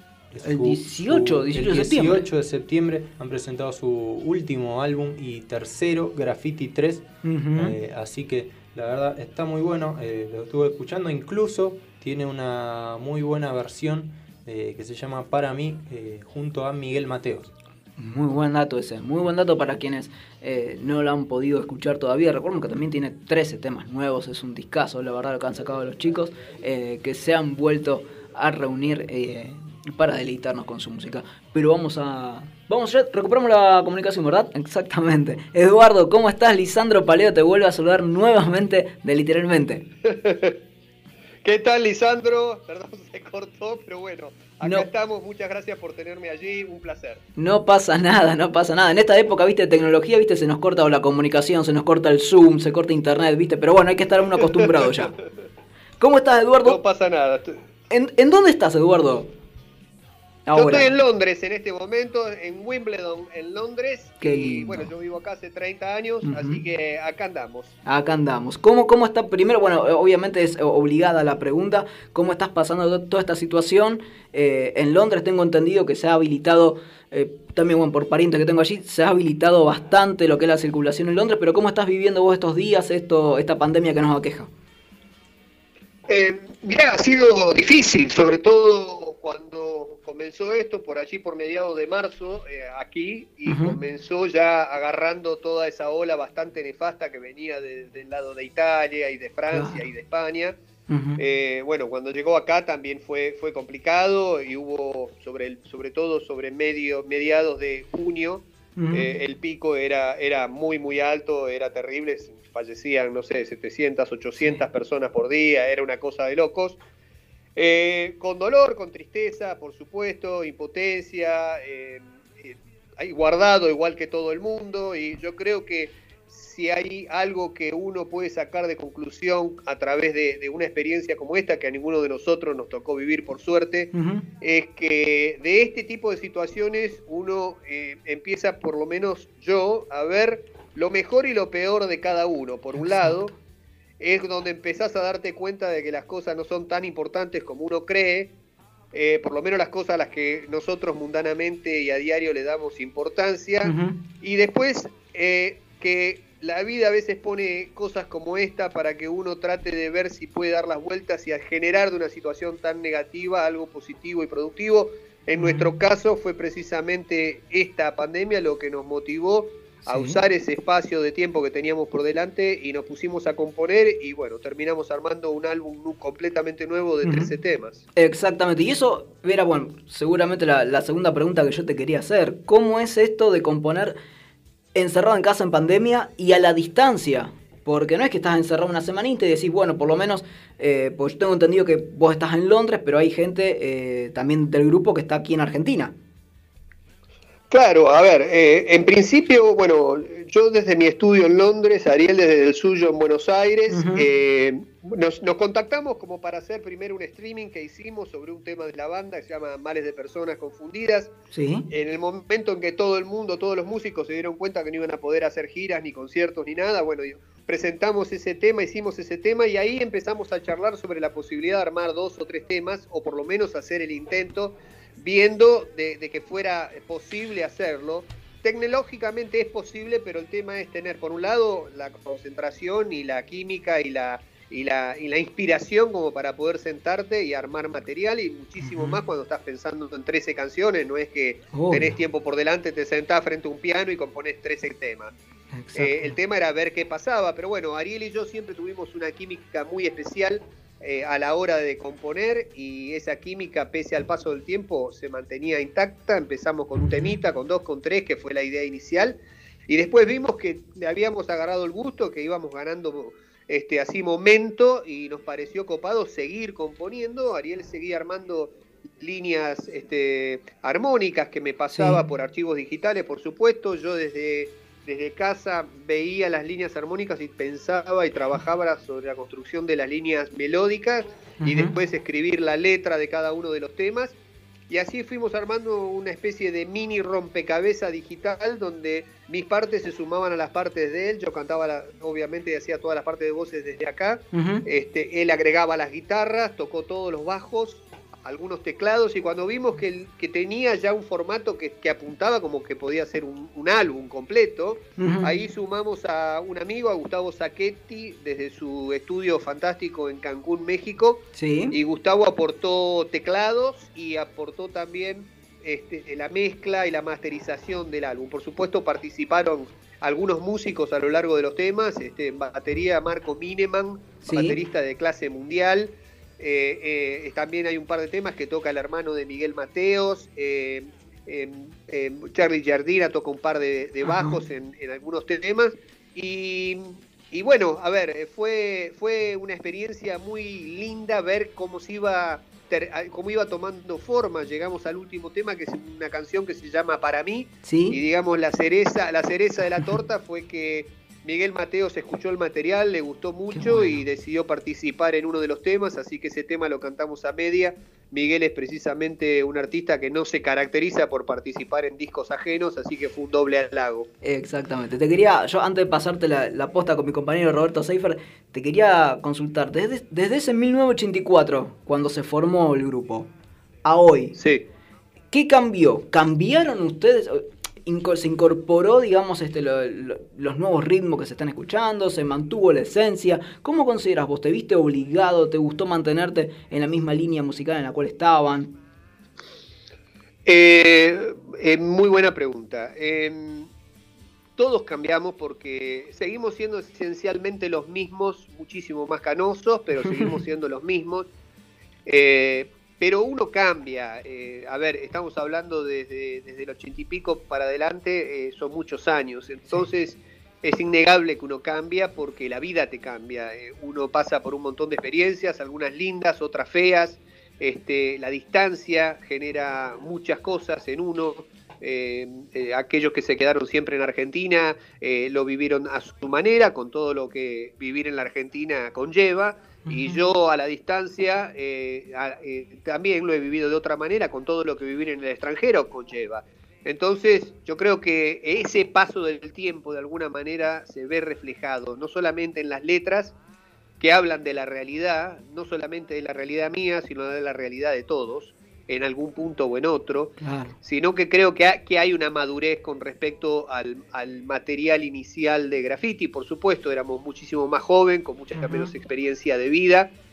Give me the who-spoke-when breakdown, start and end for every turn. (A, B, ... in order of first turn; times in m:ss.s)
0:00.3-0:17.5 A
0:00.4-0:02.3 B
0:07.2-0:07.8 B
0:18.0-0:39.8 B
0:40.1-0:40.6 C
0:41.4-0:47.2 C
0:44.6-0:44.9 B
0:47.4-0:55.1 B
0:56.0-0:56.8 B
0:56.6-0:57.6 C
0:57.9-0:59.3 B
1:00.5-1:00.9 B
1:00.6-1:07.7 C
1:04.2-1:04.9 B
1:06.2-1:06.6 B
1:07.9-1:24.5 B
1:26.1-1:40.6 C
1:33.5-1:33.8 B
1:39.5-1:39.8 B
1:40.9-1:41.2 B
1:41.2-1:56.8 C
1:48.8-1:49.1 B
1:57.6-2:23.3 C
2:13.9-2:14.2 B
2:22.8-2:23.2 B
2:24.0-2:28.3 C
2:28.9-2:57.8 C
2:33.6-2:34.0 B
2:45.4-2:45.7 B
2:49.8-2:50.2 B
2:57.0-2:57.3 B
2:58.0-3:04.0 B
3:04.8-3:15.9 B
3:17.5-3:31.1 C
3:23.7-3:24.1 B
3:31.3-3:31.7 B
3:31.7-4:05.1 C
3:58.6-3:59.0 B
4:01.5-4:01.9 B
4:05.5-4:06.2 B
4:05.7-4:44.2 C
4:31.7-4:32.0 B
4:41.4-4:41.7 B
4:44.7-6:04.1 C
4:54.3-4:54.6 B
5:05.0-5:05.3 B
5:11.4-5:11.8 B
5:24.2-5:24.6 B
5:34.0-5:34.4 B
5:47.6-5:48.0 B
5:53.5-5:54.0 B
6:04.2-6:13.3 B
6:13.8-6:14.4 B
6:14.4-6:14.6 C
6:15.3-6:28.7 B
6:30.5-6:33.7 C
6:34.6-6:41.3 C
6:40.1-6:40.4 B
6:42.1-7:23.3 C
7:09.9-7:10.2 B
7:24.0-7:40.1 C
7:30.4-7:30.8 B
7:38.6-7:38.9 B